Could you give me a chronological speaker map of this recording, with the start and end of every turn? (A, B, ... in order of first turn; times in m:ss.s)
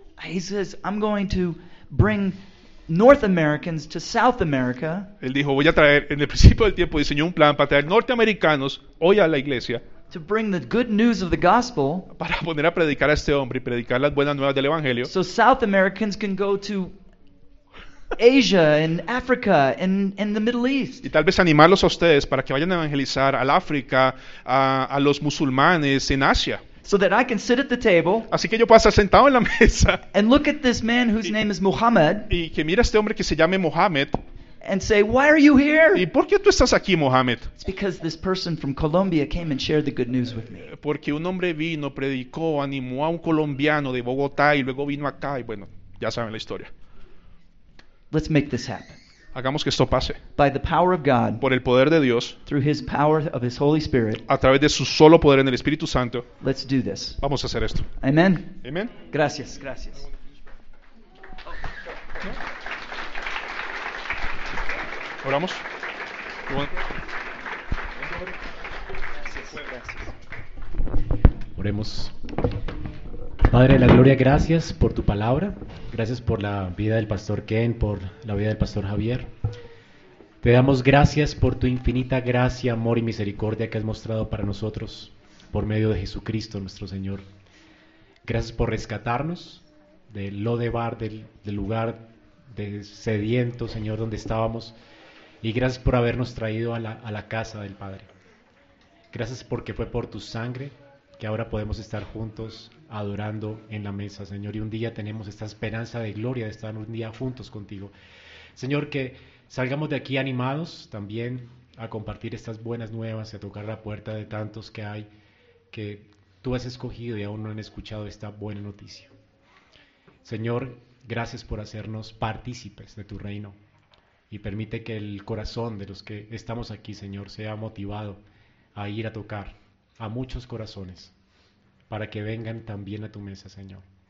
0:00.2-0:05.1 A
0:05.2-0:09.8 B
0:10.1-0:12.1 A
0:12.1-0:15.1 B
0:15.0-0:16.9 A
0:18.2-0:21.1 A
0:21.0-0:26.6 B
0:26.8-0:28.3 A
0:28.3-0:30.0 B
0:30.1-0:32.3 A
0:32.3-0:34.2 B
0:34.6-0:36.1 A
0:35.9-0:37.5 B
0:37.6-0:40.7 A
0:40.6-0:46.7 B
0:48.1-0:49.0 A
0:49.3-0:50.2 B
0:50.4-0:51.4 A
0:51.4-0:52.4 B
0:52.4-0:54.2 A
0:54.2-0:56.3 B
0:56.4-0:57.2 A
0:57.2-0:57.9 B
0:58.0-1:00.0 A
0:58.6-0:59.0 B
1:05.2-1:05.6 B
1:06.5-1:06.7 B
1:09.2-1:10.1 A
1:11.5-1:12.2 C
1:13.5-1:19.3 C
1:20.4-1:27.3 C
1:28.2-1:34.7 C
1:35.4-1:38.1 C
1:39.1-1:47.9 C
1:48.5-1:55.1 C
1:55.7-1:59.1 C
2:00.2-2:03.6 C
2:04.3-2:08.2 C
2:08.7-2:11.1 C
2:11.9-2:13.8 C